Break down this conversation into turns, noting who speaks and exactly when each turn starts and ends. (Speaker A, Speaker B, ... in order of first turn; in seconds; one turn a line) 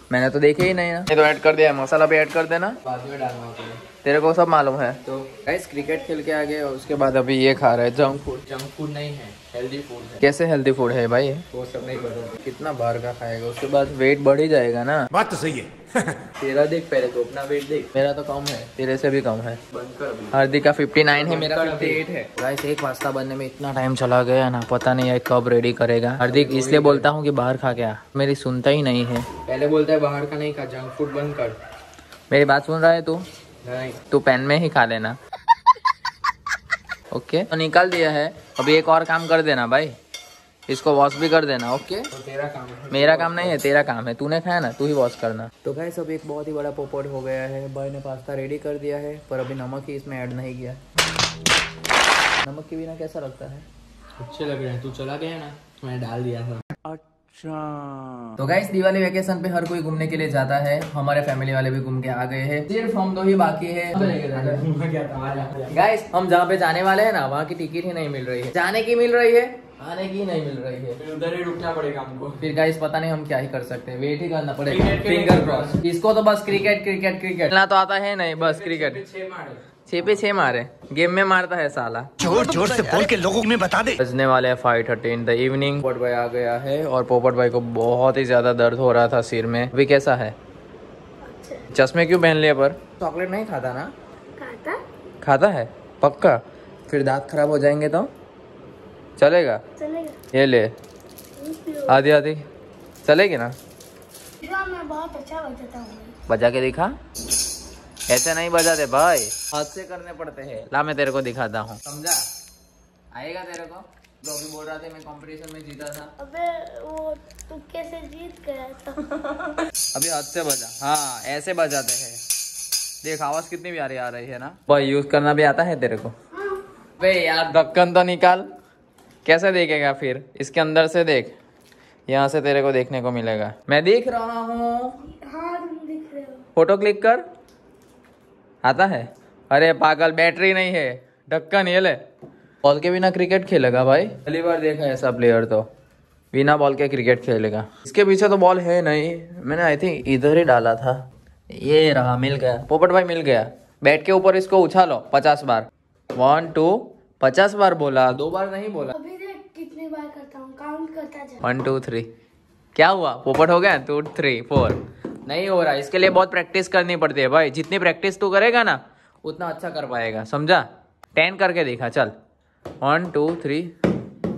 Speaker A: 0.1-2.8
Speaker B: 2.8-3.8
Speaker A: 4.0-8.4
Speaker B: 8.4-10.2
Speaker A: 10.2-11.4
Speaker B: 11.5-12.3
Speaker A: 12.4-15.1
Speaker C: 15.1-16.1
Speaker B: 16.4-17.9
Speaker A: 17.9-19.6
Speaker B: 19.7-22.0
Speaker A: 20.3-29.2
Speaker B: 26.2-27.1
Speaker B: 29.4-31.6
Speaker A: 32.3-33.2
Speaker B: 33.6-34.0
Speaker A: 34.1-35.2
Speaker A: 37.1-40.0
Speaker A: 40.7-42.1
Speaker B: 42.1-43.6
Speaker A: 42.9-50.8
Speaker A: 52.4-53.6
Speaker B: 54.2-56.6
Speaker A: 58.4-64.7
Speaker B: 63.9-65.7
Speaker A: 65.7-71.0
Speaker B: 71.0-72.5
Speaker A: 72.4-79.0
Speaker B: 74.7-75.8
Speaker B: 78.4-79.6
Speaker A: 79.9-82.1
Speaker C: 82.2-83.9
Speaker A: 84.0-90.3
Speaker D: 91.3-91.6
Speaker A: 91.7-93.9
Speaker D: 94.4-94.8
Speaker A: 95.2-98.1
Speaker A: 99.2-99.6
Speaker D: 99.8-100.2
Speaker A: 100.3-100.7
Speaker D: 101.4-102.0
Speaker A: 101.9-102.4
Speaker A: 103.0-103.5
Speaker D: 104.4-106.1
Speaker A: 106.3-106.9
Speaker A: 108.1-112.2
Speaker A: 113.1-116.1
Speaker D: 116.2-119.0
Speaker A: 119.9-122.2
Speaker A: 123.0-126.1
Speaker A: 127.0-128.5
Speaker A: 129.2-131.3
Speaker A: 132.1-135.0
Speaker D: 135.1-136.4
Speaker A: 136.6-137.2
Speaker A: 138.6-142.0
Speaker A: 142.6-145.7
Speaker A: 146.3-158.9
Speaker D: 158.9-161.4
Speaker A: 161.4-162.1
Speaker A: 162.7-172.1
Speaker A: 172.8-173.7